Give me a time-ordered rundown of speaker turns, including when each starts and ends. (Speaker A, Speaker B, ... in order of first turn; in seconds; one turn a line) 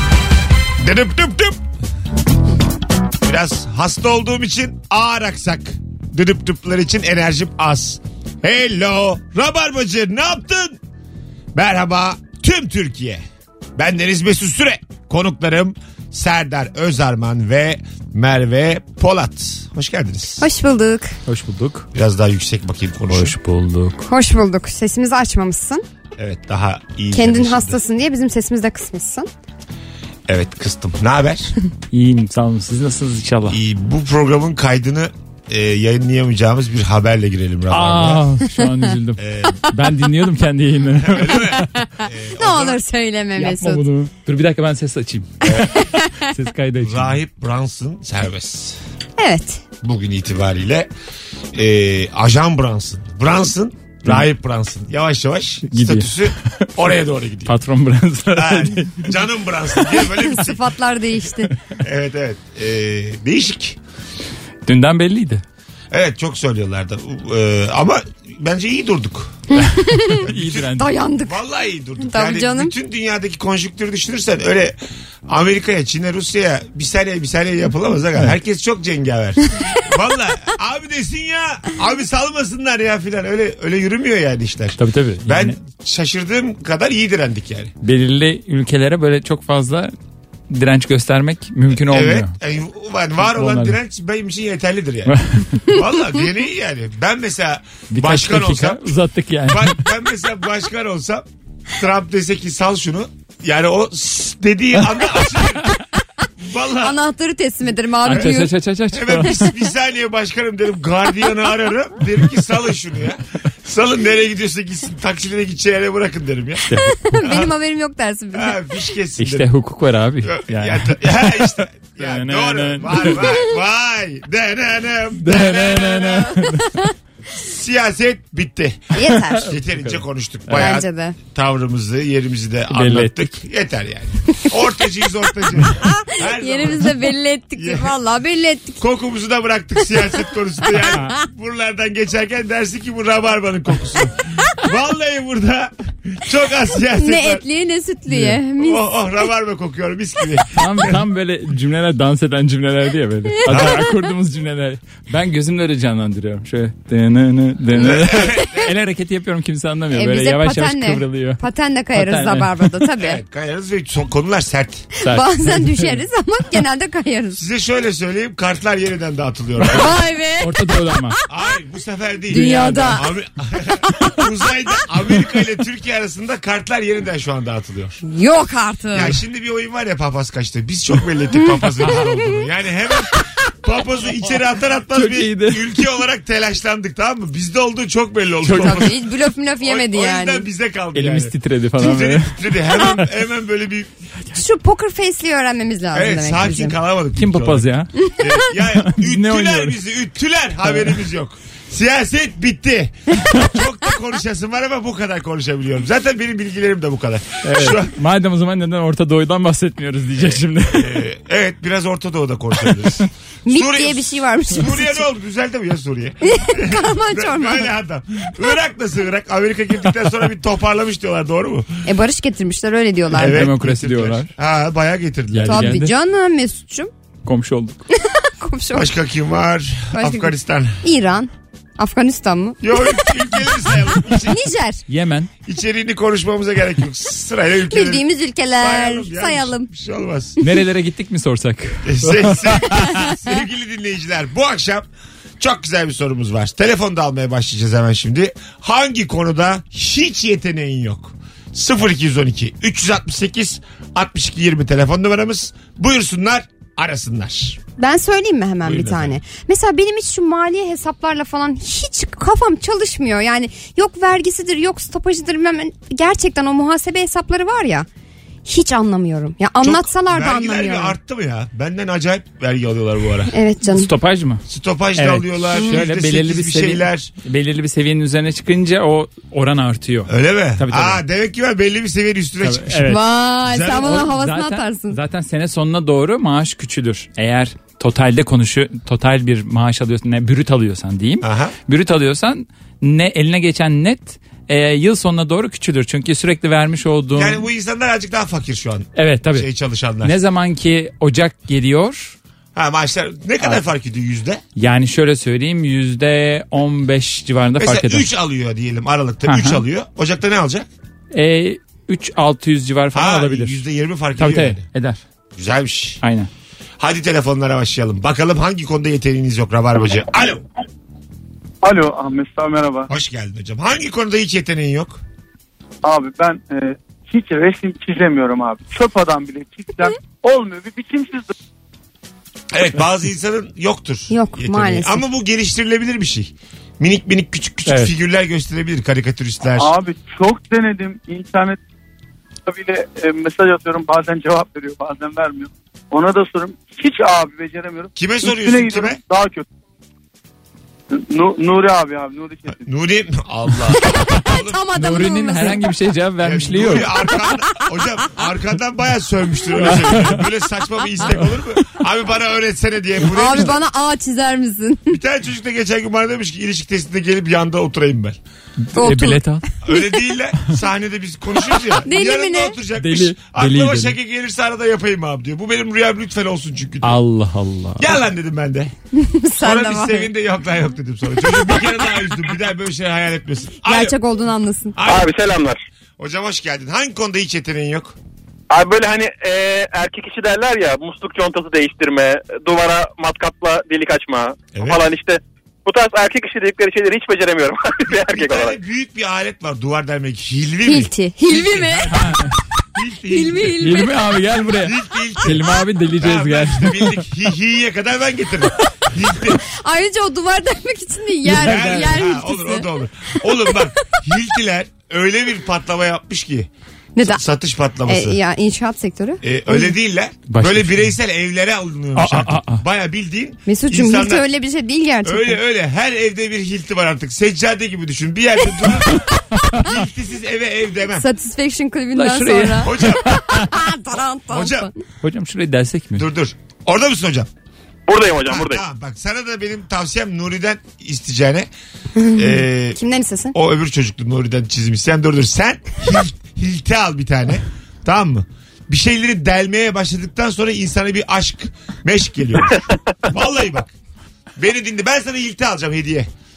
Speaker A: 0.8-1.6
Speaker A: 3.2-10.8
Speaker A: 11.5-13.2
Speaker A: 13.8-20.5
Speaker B: 20.4-21.1
Speaker C: 21.3-21.9
Speaker A: 21.9-23.4
Speaker C: 23.1-24.1
Speaker B: 24.1-25.8
Speaker A: 26.2-27.8
Speaker B: 27.1-29.3
Speaker A: 30.3-31.5
Speaker C: 31.9-33.6
Speaker A: 33.5-38.2
Speaker C: 37.7-41.7
Speaker A: 39.2-39.6
Speaker A: 41.0-42.8
Speaker B: 42.4-43.8
Speaker C: 43.4-47.2
Speaker A: 45.4-45.8
Speaker B: 45.5-46.1
Speaker A: 46.8-48.8
Speaker B: 49.2-49.6
Speaker A: 49.8-50.9
Speaker A: 51.5-57.5
Speaker C: 55.7-56.7
Speaker C: 57.5-59.1
Speaker A: 58.3-60.6
Speaker B: 60.1-61.5
Speaker A: 61.8-63.8
Speaker C: 64.6-65.4
Speaker A: 65.9-69.5
Speaker B: 69.5-70.2
Speaker C: 69.6-70.9
Speaker A: 70.2-87.7
Speaker B: 70.8-71.4
Speaker B: 72.0-72.7
Speaker C: 84.8-85.6
Speaker C: 87.8-89.9
Speaker C: 90.5-92.3
Speaker A: 91.7-95.1
Speaker C: 93.2-93.8
Speaker C: 95.1-95.6
Speaker A: 95.7-98.9
Speaker C: 97.9-99.8
Speaker A: 99.5-101.2
Speaker A: 101.8-105.7
Speaker A: 106.4-107.0
Speaker B: 106.8-108.5
Speaker C: 108.0-109.4
Speaker A: 108.9-116.7
Speaker C: 116.7-116.9
Speaker B: 116.8-118.6
Speaker A: 118.3-119.5
Speaker C: 119.2-123.2
Speaker A: 120.2-126.4
Speaker C: 125.2-126.8
Speaker B: 126.0-126.8
Speaker A: 127.3-137.0
Speaker B: 128.9-129.5
Speaker C: 129.4-130.7
Speaker B: 130.6-131.2
Speaker C: 132.7-133.4
Speaker B: 135.8-138.8
Speaker A: 137.6-137.9
Speaker A: 138.8-147.4
Speaker B: 140.8-141.1
Speaker B: 147.0-148.8
Speaker C: 148.1-148.4
Speaker A: 148.6-151.0
Speaker C: 150.5-161.4
Speaker B: 153.4-153.8
Speaker A: 153.4-153.8
Speaker A: 157.7-158.7
Speaker B: 159.9-163.2
Speaker C: 161.9-162.7
Speaker A: 163.0-164.9
Speaker C: 165.0-166.0
Speaker B: 165.0-167.4
Speaker A: 167.3-170.0
Speaker B: 169.7-170.5
Speaker C: 170.4-171.2
Speaker A: 171.3-178.0
Speaker B: 172.3-173.1
Speaker C: 172.3-173.0
Speaker B: 173.8-174.3
Speaker B: 178.0-179.2
Speaker A: 178.9-189.0
Speaker B: 181.3-182.1
Speaker C: 181.8-182.1
Speaker C: 184.9-185.6
Speaker C: 188.4-189.0
Speaker B: 188.5-190.5
Speaker A: 189.6-193.9
Speaker C: 190.9-193.1
Speaker B: 194.3-196.7
Speaker A: 195.9-197.7
Speaker C: 197.2-197.9
Speaker A: 198.2-207.9
Speaker C: 198.7-199.8
Speaker C: 200.6-201.0
Speaker C: 207.4-211.0
Speaker A: 210.7-221.8
Speaker B: 213.4-215.0
Speaker B: 216.3-217.7
Speaker B: 221.8-223.5
Speaker A: 223.1-225.8
Speaker C: 223.1-224.3
Speaker C: 225.3-225.9
Speaker B: 225.4-226.9
Speaker C: 227.2-227.8
Speaker B: 228.0-228.9
Speaker A: 228.7-230.8
Speaker B: 229.9-230.3
Speaker B: 230.8-233.1
Speaker A: 232.6-234.4
Speaker B: 234.2-234.8
Speaker C: 234.9-235.3
Speaker A: 235.4-240.4
Speaker B: 237.7-239.7
Speaker C: 240.4-243.0
Speaker A: 241.8-244.9
Speaker A: 245.4-257.6
Speaker B: 257.8-267.9
Speaker A: 258.6-259.2
Speaker B: 268.4-270.9
Speaker A: 269.6-273.3
Speaker B: 273.3-273.9
Speaker C: 273.7-274.4
Speaker A: 274.5-277.1
Speaker C: 274.9-281.0
Speaker A: 280.1-282.9
Speaker C: 282.4-283.1
Speaker B: 282.8-285.0
Speaker A: 283.4-284.1
Speaker C: 283.7-297.4
Speaker A: 291.2-291.5
Speaker A: 297.1-300.1
Speaker C: 298.9-299.5
Speaker C: 300.0-302.1
Speaker A: 302.5-304.4
Speaker C: 304.6-308.1
Speaker A: 307.6-310.7
Speaker C: 309.2-309.6
Speaker C: 311.1-313.6
Speaker A: 312.9-314.6
Speaker C: 314.2-315.0
Speaker A: 315.3-316.0
Speaker C: 316.0-316.3
Speaker A: 316.8-320.4
Speaker D: 321.6-322.9
Speaker A: 322.9-325.0
Speaker D: 325.8-331.3
Speaker A: 332.5-339.7
Speaker B: 334.1-335.0
Speaker C: 337.6-337.9
Speaker D: 339.5-341.6
Speaker D: 342.4-349.4
Speaker A: 347.9-349.0
Speaker D: 350.9-352.7
Speaker A: 352.6-354.6
Speaker B: 353.9-355.6
Speaker C: 354.8-356.9
Speaker A: 356.2-363.6
Speaker C: 359.6-360.2
Speaker B: 363.0-365.0
Speaker A: 364.9-368.2
Speaker C: 368.6-369.4
Speaker B: 368.7-370.0
Speaker A: 369.6-377.0
Speaker B: 371.6-372.6
Speaker C: 372.8-374.0
Speaker C: 376.8-378.0
Speaker A: 377.8-378.7
Speaker B: 378.9-380.1
Speaker A: 379.4-384.0
Speaker B: 383.6-384.8
Speaker A: 384.8-385.1
Speaker E: 384.8-385.6
Speaker A: 386.0-387.9
Speaker E: 388.5-398.6
Speaker A: 394.5-394.8
Speaker A: 397.9-402.2
Speaker B: 400.6-402.0
Speaker C: 401.9-402.3
Speaker A: 402.7-403.9
Speaker B: 403.1-403.9
Speaker C: 403.6-407.0
Speaker A: 404.4-409.4
Speaker B: 409.4-412.7
Speaker C: 411.2-412.0
Speaker A: 411.3-418.2
Speaker B: 416.9-417.2
Speaker B: 417.9-419.7
Speaker A: 419.2-424.2
Speaker C: 420.3-420.9
Speaker C: 421.9-422.6
Speaker B: 423.5-425.4
Speaker A: 425.0-431.1
Speaker B: 430.9-432.8
Speaker C: 431.9-433.4
Speaker A: 432.6-433.2
Speaker B: 433.3-434.7
Speaker A: 434.3-434.7
Speaker C: 435.0-436.1
Speaker A: 435.9-437.3
Speaker E: 437.9-438.6
Speaker A: 438.2-441.5
Speaker B: 441.9-443.3
Speaker A: 442.1-442.8
Speaker A: 443.3-453.7
Speaker A: 454.4-456.1